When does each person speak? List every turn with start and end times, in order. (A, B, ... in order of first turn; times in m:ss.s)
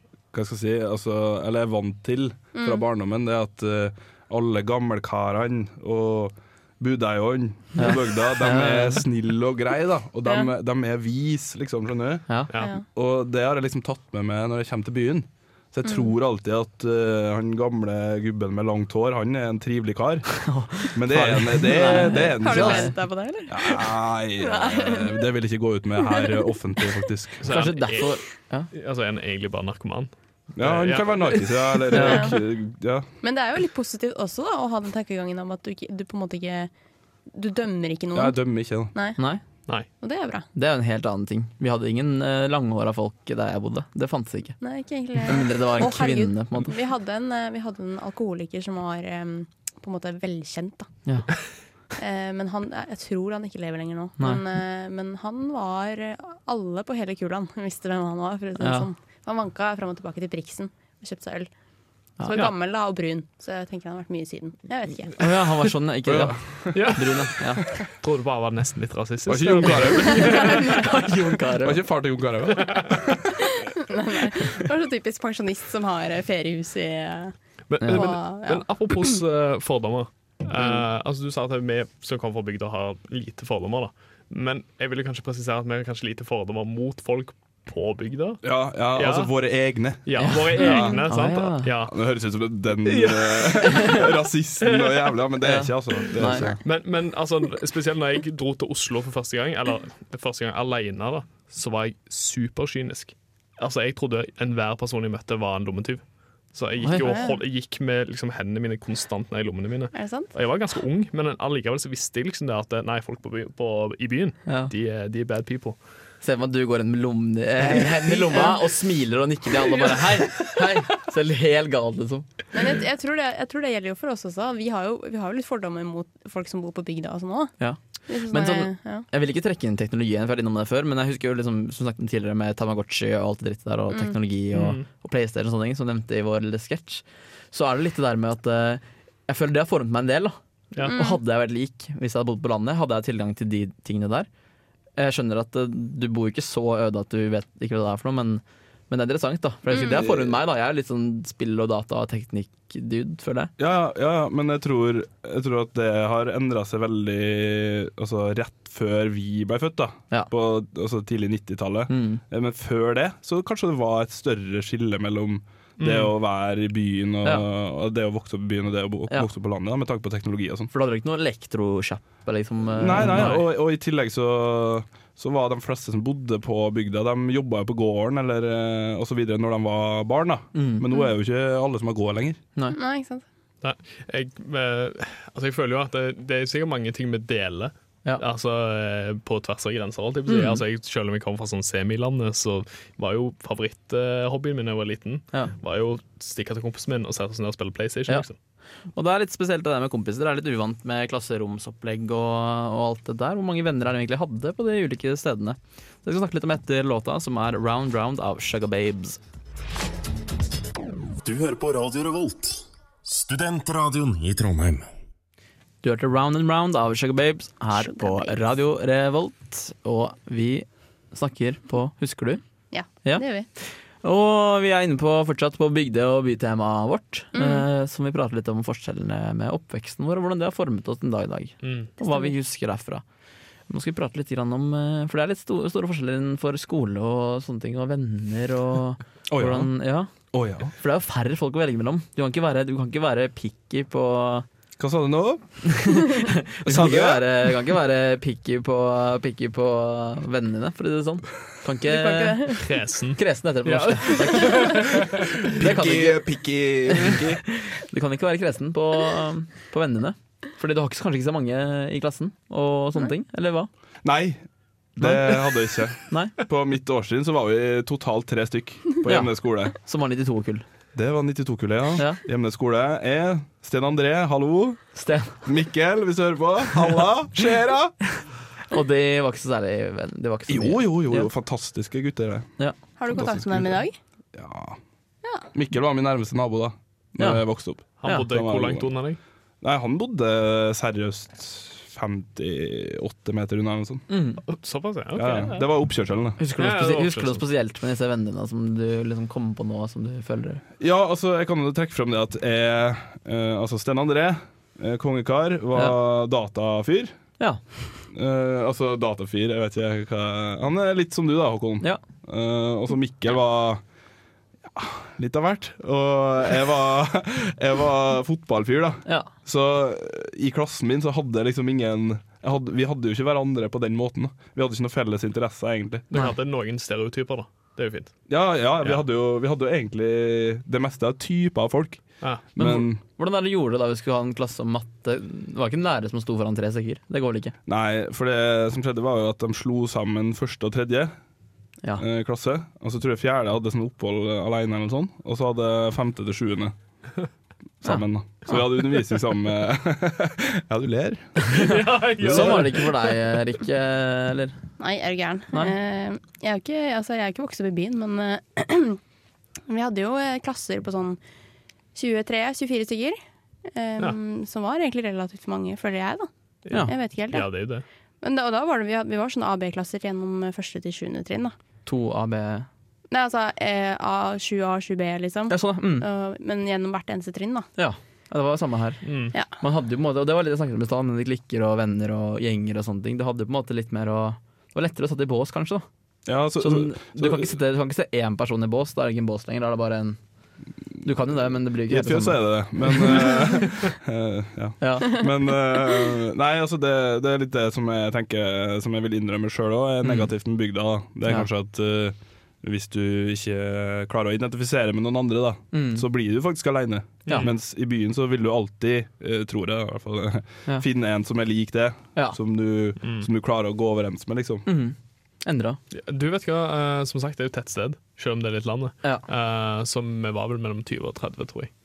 0:00.3-0:22.9 A
0:02.5-0:02.8 B
0:07.8-0:09.0 C
0:10.2-0:10.5 B
0:12.5-0:12.7 D
0:15.8-0:16.1 B
0:20.4-0:23.0 C
0:21.7-0:25.2 B
0:23.5-0:27.4 A
0:26.0-0:26.4 B
0:27.4-0:28.2 D
0:27.5-0:28.7 C
0:28.7-0:31.7 D
0:30.6-0:33.0 A
0:31.9-0:32.3 C
0:32.0-0:32.4 B
0:33.2-0:36.7 B
0:37.3-0:38.4 B
0:38.1-0:38.9 A
0:38.9-0:39.2 B
0:39.2-0:39.4 C
0:40.0-0:40.4 B
0:40.5-0:44.6 C
0:44.6-0:50.9 B
0:45.2-0:46.7 C
0:51.0-0:51.3 C
0:51.9-1:01.5 B
0:54.2-0:54.4 C
0:58.6-0:58.9 C
1:02.2-1:05.3 B
1:05.2-1:07.6 C
1:06.0-1:07.0 A
1:06.7-1:07.3 D
1:07.8-1:10.9 D
1:09.2-1:10.7 A
1:09.9-1:11.1 B
1:10.8-1:11.8 C
1:11.6-1:13.5 A
1:13.4-1:17.3 B
1:17.7-1:29.3 D
1:17.8-1:18.1 C
1:17.9-1:19.1 B
1:20.6-1:20.8 A
1:28.4-1:31.0 A
1:30.0-1:31.9 D
1:30.2-1:31.7 C
1:30.7-1:30.9 B
1:31.9-1:36.6 A
1:32.8-1:35.2 D
1:35.4-1:36.5 C
1:36.0-1:55.8 D
1:46.9-1:47.4 B
1:49.9-1:50.3 B
1:54.4-1:54.7 C
1:56.2-2:02.3 C
1:57.7-1:58.6 B
2:02.5-2:07.6 B
2:07.6-2:24.3 C
2:08.1-2:09.0 B
2:14.5-2:14.8 D
2:20.8-2:21.2 B
2:25.0-2:33.5 C
2:29.7-2:30.1 B
2:29.8-2:30.2 A
2:33.6-2:50.7 A
2:41.9-2:42.2 C
2:45.8-2:46.1 D
2:50.7-2:53.4 C
2:52.7-3:02.4 A
2:53.0-2:53.4 D
3:00.5-3:00.8 C
3:02.7-3:03.2 B
3:03.6-3:18.3 D
3:10.3-3:10.6 C
3:18.9-3:29.2 C
3:31.2-3:34.9 E
3:35.8-3:42.4 C
3:37.7-3:38.4 B
3:42.7-3:43.5 B
3:43.0-3:53.0 C
3:47.3-3:47.7 B
3:51.6-3:51.9 D
3:52.0-3:52.3 B
3:53.7-4:00.1 C
3:59.3-3:59.7 A
4:00.3-4:00.7 A
4:00.8-4:04.4 C
4:04.8-4:07.6 A
4:05.6-4:12.5 C
4:11.8-4:12.6 B
4:12.5-4:15.4 D
4:13.2-4:16.2 C
4:14.3-4:14.8 B
4:15.4-4:17.4 A
4:16.9-4:23.7 C
4:24.0-4:24.4 A
4:25.0-4:29.7 A
4:25.0-4:25.6 C
4:26.1-4:26.3 C
4:29.0-4:30.6 C
4:30.9-4:34.8 A
4:34.9-4:35.5 C
4:35.4-4:38.0 A
4:38.7-4:41.3 C
4:40.5-4:42.5 A
4:43.0-4:44.0 B
4:43.1-4:44.8 A
4:45.5-4:48.9 A
4:47.2-4:47.4 C
4:48.0-4:49.2 D
4:49.6-4:54.0 A
4:54.1-4:54.4 C
4:54.4-4:55.7 D
4:55.1-4:56.4 A
4:56.4-5:00.6 C
4:56.6-4:57.4 D
5:00.8-5:07.2 A
5:08.1-5:13.8 A
5:14.7-5:26.0 A
5:19.0-5:19.3 C
5:26.1-5:28.1 D
5:28.3-5:33.0 A
5:32.6-5:37.5 C
5:37.6-5:41.1 A
5:42.0-5:46.7 A
5:47.8-5:51.4 A
5:51.4-5:54.6 C
5:51.5-5:53.2 D
5:52.2-5:52.7 A
5:54.8-5:59.0 B
5:59.7-6:01.2 B
6:01.9-6:03.2 B
6:03.7-6:06.3 B
6:06.6-6:07.8 D
6:06.8-6:07.5 B
6:08.2-6:11.5 B
6:11.8-6:12.7 C
6:13.1-6:17.7 B
6:15.5-6:16.1 C
6:17.8-6:19.0 C
6:19.0-6:19.3 D
6:19.5-6:25.8 C
6:26.3-6:27.5 A
6:26.6-6:30.2 C
6:31.0-6:33.4 C
6:31.9-6:54.6 A
6:34.8-6:35.2 C
6:40.0-6:40.3 C
6:45.7-6:46.0 C
6:47.2-6:47.5 D
6:53.0-6:53.3 D
6:54.6-6:55.8 C
6:55.9-7:01.7 D